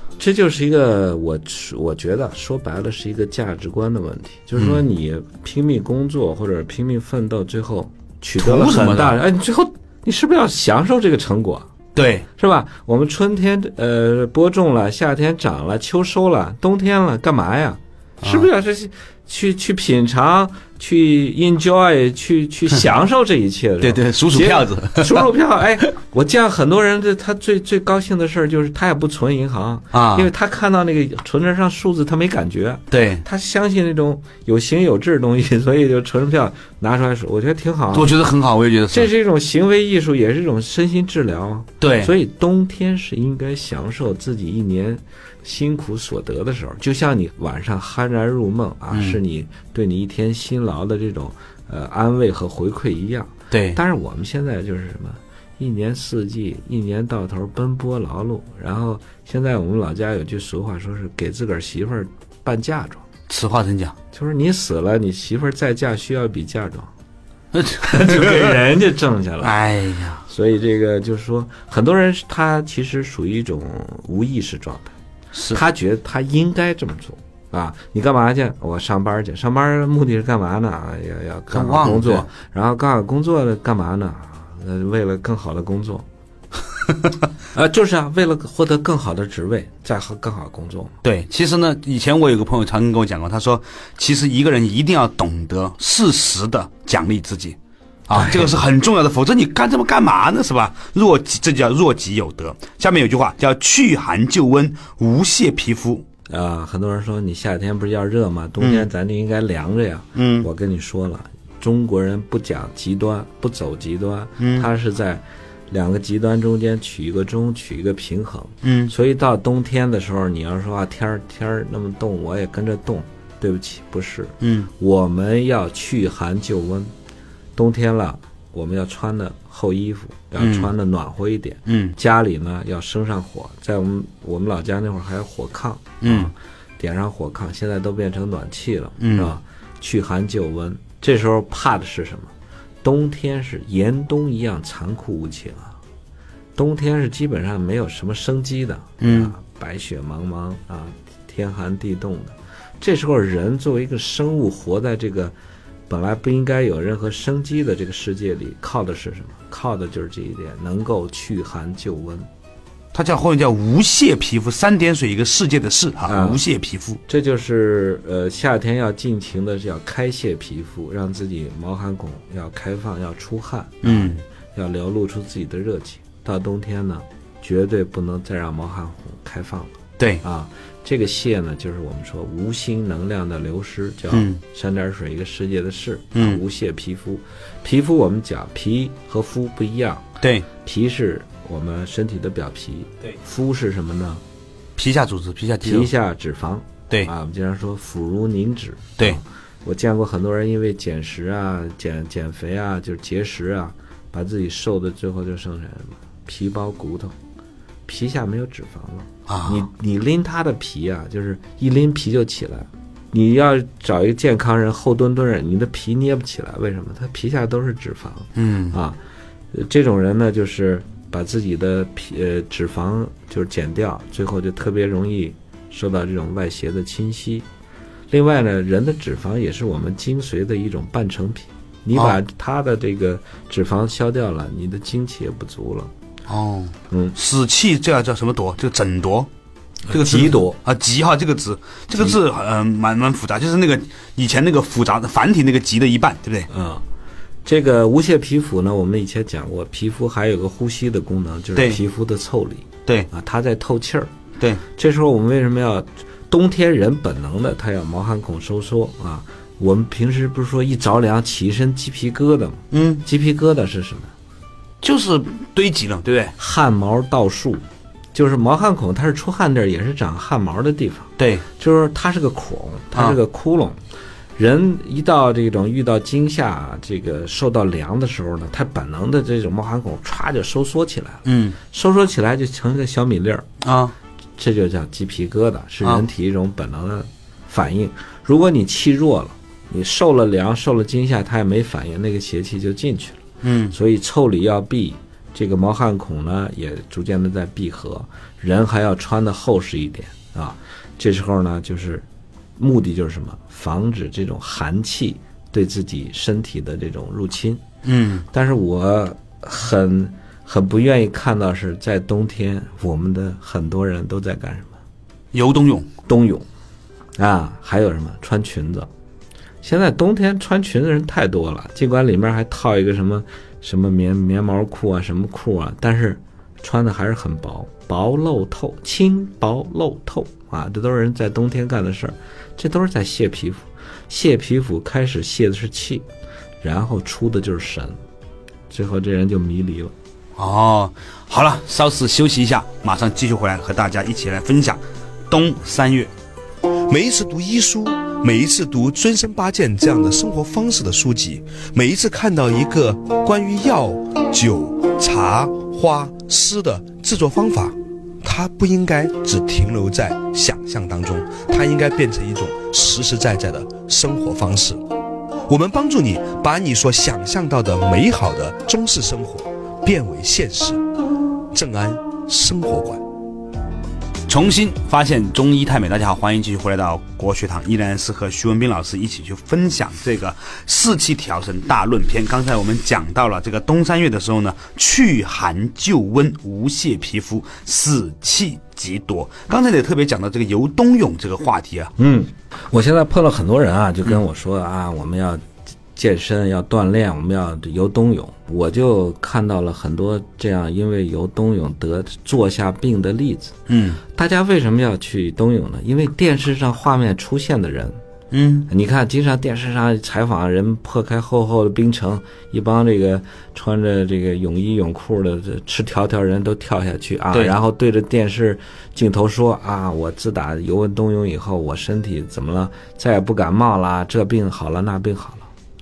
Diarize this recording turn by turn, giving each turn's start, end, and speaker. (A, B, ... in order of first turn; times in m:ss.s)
0:00.2-0:11.7 A
0:04.6-0:04.8 B
0:08.4-0:09.2 B
0:11.9-0:12.3 B
0:12.4-0:38.2 A
0:18.2-0:18.5 B
0:23.8-0:25.3 B
0:29.9-0:30.3 B
0:32.9-0:33.2 B
0:37.9-0:39.1 B
0:38.9-1:03.0 A
0:41.8-0:42.1 B
0:48.9-0:49.2 B
0:53.5-0:53.8 B
1:03.3-1:04.0 B
1:04.1-1:06.9 A
1:07.5-1:08.6 B
1:07.7-1:09.6 A
1:09.4-1:10.2 B
1:10.2-1:14.9 A
1:15.3-1:15.6 B
1:15.5-1:26.0 A
1:21.5-1:22.3 B
1:27.5-1:31.0 A
1:31.0-1:37.6 B
1:38.1-1:46.0 B
1:38.1-1:38.6 A
1:46.3-2:06.9 A
1:48.6-1:48.9 B
1:50.2-1:50.5 B
1:54.4-1:54.7 B
1:58.6-1:58.9 B
2:04.4-2:04.7 B
2:07.6-2:22.3 A
2:10.4-2:10.7 B
2:11.7-2:12.0 B
2:16.0-2:16.3 B
2:19.0-2:19.3 B
2:22.8-2:25.8 A
2:26.6-2:35.3 A
2:29.0-2:29.3 B
2:35.9-2:42.3 A
2:42.9-2:47.0 B
2:46.0-2:46.4 A
2:47.1-3:10.0 A
2:53.8-2:54.2 B
3:04.1-3:04.4 B
3:06.1-3:06.4 B
3:10.2-3:10.5 B
3:10.6-3:14.2 A
3:14.8-3:15.9 B
3:15.6-3:27.1 A
3:27.8-3:39.0 A
3:29.3-3:29.6 B
3:38.3-3:38.8 B
3:39.5-3:47.4 A
3:48.1-3:55.9 A
3:56.3-3:59.3 B
3:56.9-3:57.2 A
3:59.9-4:00.6 A
3:59.9-4:06.5 B
4:06.5-4:06.8 A
4:07.4-4:14.1 A
4:11.6-4:11.8 B
4:14.7-4:24.1 A
4:22.7-4:23.0 B
4:24.8-4:26.3 B
4:26.4-4:27.6 A
4:28.1-4:33.8 A
4:31.2-4:31.4 B
4:34.4-4:43.5 A
4:41.2-4:41.6 B
4:43.6-4:43.9 B
4:44.4-5:02.0 A
4:53.4-4:53.7 B
5:02.6-5:07.6 A
5:07.8-5:08.2 B
5:08.3-5:14.8 A
5:15.3-5:15.9 B
5:16.1-5:16.4 A
5:17.2-5:18.9 A
5:19.6-5:36.0 A
5:36.6-5:38.0 A
5:38.7-5:39.9 A
5:40.4-5:46.1 B
5:46.9-6:04.8 C
6:05.5-6:10.8 C
6:11.5-6:13.0 C
6:14.3-6:31.9 B
6:32.0-6:35.4 A
6:35.9-6:43.6 A
6:43.7-6:44.0 B
6:44.1-6:48.0 A
6:48.3-6:48.7 B
6:48.7-7:05.5 A